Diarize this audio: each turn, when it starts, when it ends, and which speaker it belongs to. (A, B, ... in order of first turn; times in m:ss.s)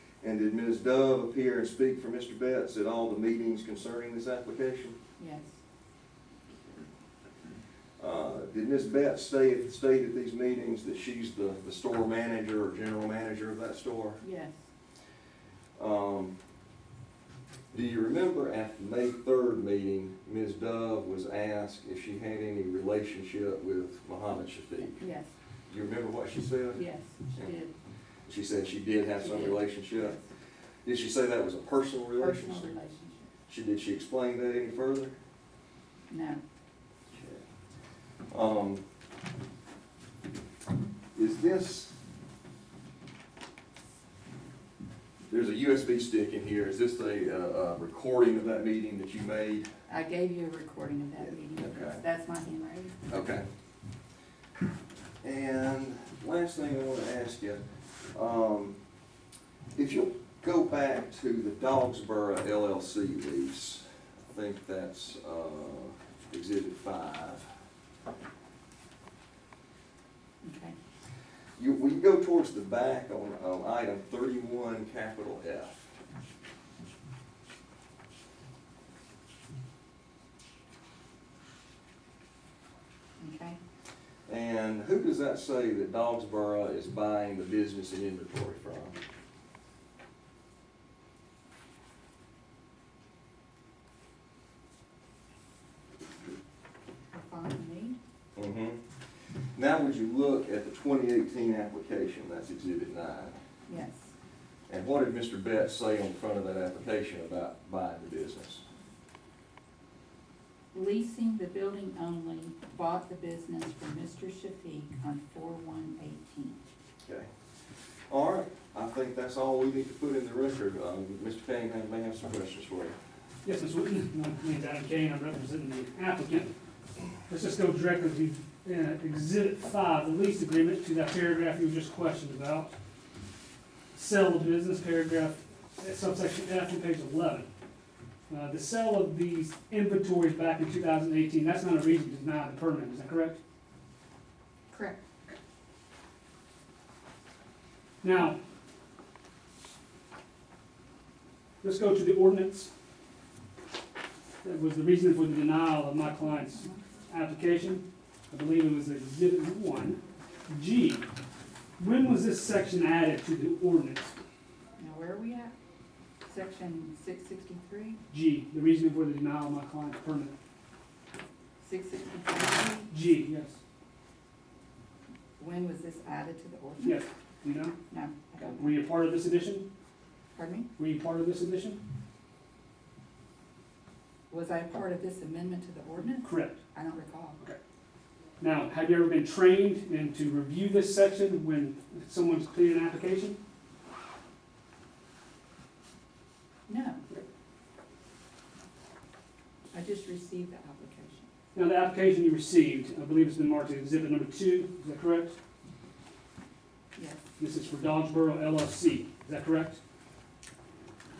0:00.2-0:05.0 A
0:05.2-0:05.6 B
0:08.0-0:14.2 A
0:14.2-0:14.6 B
0:15.8-0:16.4 A
0:17.7-0:25.0 A
0:25.0-0:25.3 B
0:25.7-0:26.8 A
0:26.8-0:27.7 B
0:28.2-0:30.2 A
0:29.2-0:30.2 B
0:30.8-0:32.7 A
0:32.2-0:33.3 B
0:33.5-0:35.1 A
0:36.1-0:36.4 B
0:37.1-0:37.4 A
0:38.3-0:38.8 A
0:41.1-0:42.0 A
0:45.3-0:49.7 A
0:49.9-0:53.0 B
0:51.6-0:52.0 A
0:53.1-0:53.4 A
0:55.2-0:57.6 A
0:58.1-0:58.8 A
0:59.7-1:07.5 A
1:10.4-1:10.8 B
1:11.6-1:15.9 A
1:23.2-1:23.6 B
1:24.3-1:29.0 A
1:37.1-1:38.0 B
1:38.4-1:38.8 A
1:39.5-1:43.4 A
1:43.7-1:44.1 B
1:44.7-1:48.6 A
1:50.7-1:56.6 B
1:58.1-2:03.0 A
2:03.4-2:06.5 C
2:07.3-2:12.7 C
2:13.9-2:17.5 C
2:18.3-2:23.4 C
2:24.7-2:25.0 B
2:28.0-2:28.4 C
2:31.6-2:32.7 C
2:34.4-2:41.1 C
2:36.2-2:36.8 B
2:41.8-2:44.1 C
2:44.8-2:45.5 B
2:46.2-2:48.0 B
2:48.1-2:50.3 C
2:51.6-2:52.9 B
2:52.9-2:53.6 C
2:55.4-2:57.1 B
2:56.8-2:57.8 C
2:57.9-2:58.8 B
2:58.4-2:59.6 C
3:00.3-3:00.7 B
3:00.8-3:01.8 C
3:04.3-3:07.4 B
3:06.2-3:06.6 C
3:08.4-3:13.4 C
3:16.7-3:17.0 B
3:19.7-3:21.3 B
3:21.5-3:25.3 C
3:27.0-3:27.2 B
3:27.4-3:29.8 C